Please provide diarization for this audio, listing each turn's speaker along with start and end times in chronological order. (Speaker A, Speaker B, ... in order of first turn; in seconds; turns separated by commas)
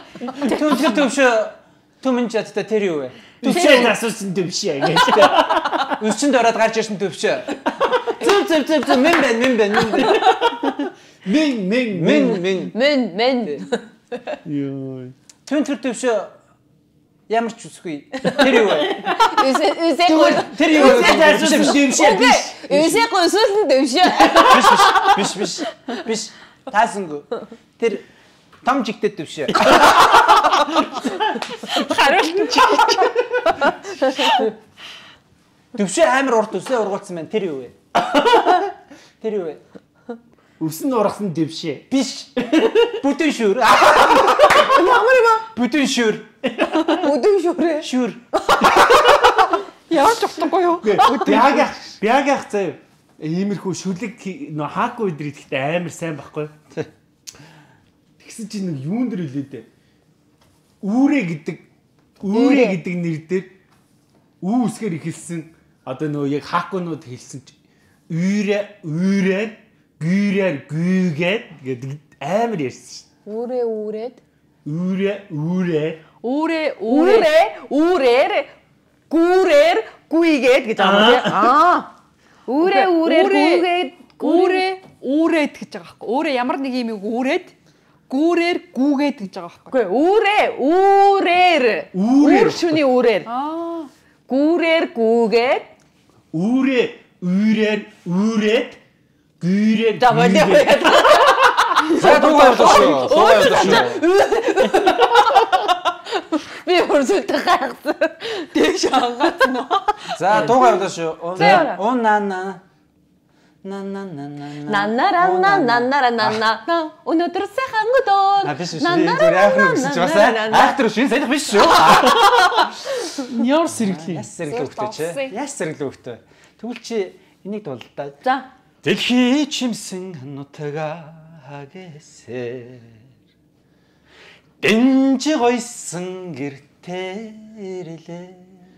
Speaker A: 0.2-4.0, Speaker B: 3.4-6.0, Speaker C: 3.5-3.8, Speaker A: 5.1-10.4, Speaker B: 10.0-12.6, Speaker A: 11.8-12.8, Speaker D: 12.5-14.4, Speaker B: 14.4-15.1, Speaker A: 15.4-16.3, Speaker A: 17.3-19.2, Speaker D: 18.3-25.4, Speaker A: 20.1-22.1, Speaker B: 20.4-22.7, Speaker A: 22.7-22.9, Speaker A: 24.2-28.0, Speaker A: 28.6-30.1, Speaker B: 29.9-31.1, Speaker C: 31.5-34.4, Speaker A: 35.7-37.8, Speaker B: 38.1-38.5, Speaker A: 39.2-39.6, Speaker B: 40.6-41.9, Speaker A: 41.9-44.8, Speaker B: 42.5-42.9, Speaker D: 44.5-45.5, Speaker A: 45.5-46.3, Speaker B: 46.5-47.0, Speaker D: 46.8-47.9, Speaker A: 47.8-48.2, Speaker D: 48.5-49.2, Speaker B: 48.8-49.4, Speaker C: 49.9-51.9, Speaker B: 50.8-56.5, Speaker D: 51.2-51.4, Speaker B: 58.2-59.7, Speaker B: 60.8-61.6, Speaker B: 62.2-63.5, Speaker D: 62.3-62.8, Speaker B: 64.4-67.5, Speaker B: 68.1-73.0, Speaker D: 73.2-74.2, Speaker B: 74.6-76.0, Speaker C: 76.2-77.5, Speaker D: 76.8-78.5, Speaker D: 79.1-81.9, Speaker B: 80.8-81.5, Speaker D: 82.5-84.7, Speaker C: 82.6-83.7, Speaker C: 84.2-87.5, Speaker C: 88.1-89.8, Speaker D: 89.7-93.3, Speaker B: 91.9-92.8, Speaker C: 93.2-93.9, Speaker D: 94.3-95.7, Speaker B: 96.3-98.8, Speaker B: 99.4-101.9, Speaker D: 100.0-111.8, Speaker A: 101.8-104.0, Speaker A: 110.1-112.6, Speaker A: 113.6-116.4, Speaker D: 114.6-120.8, Speaker A: 118.4-122.8, Speaker D: 121.5-123.1, Speaker B: 122.0-122.3, Speaker B: 123.2-124.3, Speaker A: 123.4-128.2, Speaker C: 124.5-125.3, Speaker A: 128.8-133.0, Speaker A: 134.6-138.5